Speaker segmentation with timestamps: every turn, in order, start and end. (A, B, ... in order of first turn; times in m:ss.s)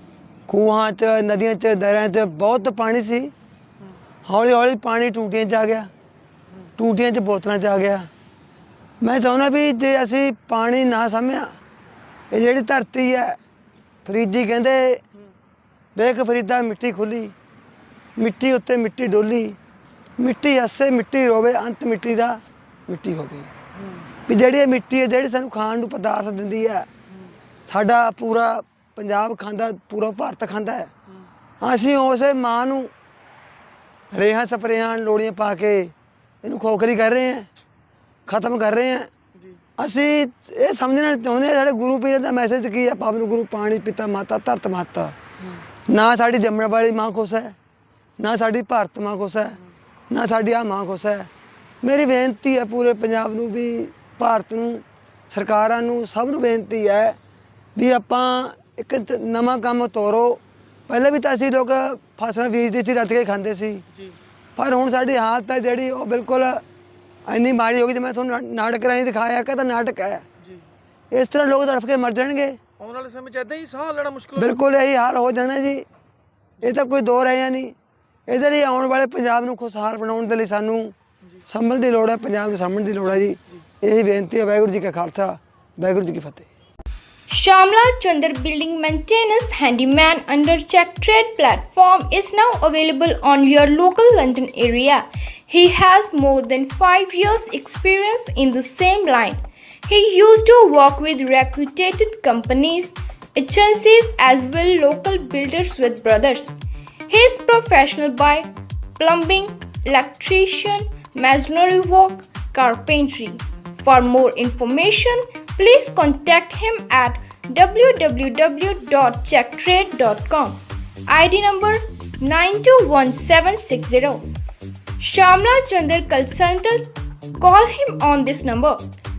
0:00.5-0:03.3 A
0:04.2-0:05.9 A
0:06.8-0:08.1 A
0:09.0-0:11.6 A
0:12.3-0:13.4 A
0:14.0-0:15.0 A
0:15.9-0:17.3 A
0:18.2-0:19.6 A
0:20.2-0:23.5 A
0:23.8-0:24.1 B
0:24.3-0:26.9 A
0:27.7-0:30.9 A
0:31.6-0:32.9 A
0:34.1-0:37.5 A
0:38.3-0:39.1 A
0:39.8-0:45.2 A
0:45.9-0:47.6 A
0:48.2-0:49.6 A
0:50.1-0:51.3 A
0:51.8-0:57.2 A
0:57.8-1:03.8 A
1:04.6-1:06.6 A
1:07.3-1:10.2 A
1:11.1-1:12.6 A
1:12.8-1:14.6 B
1:14.4-1:15.8 A
1:16.6-1:17.7 A
1:18.3-1:20.9 A
1:21.5-1:26.5 A
1:27.3-1:46.5 C
1:47.1-2:04.2 C
2:05.0-2:08.8 C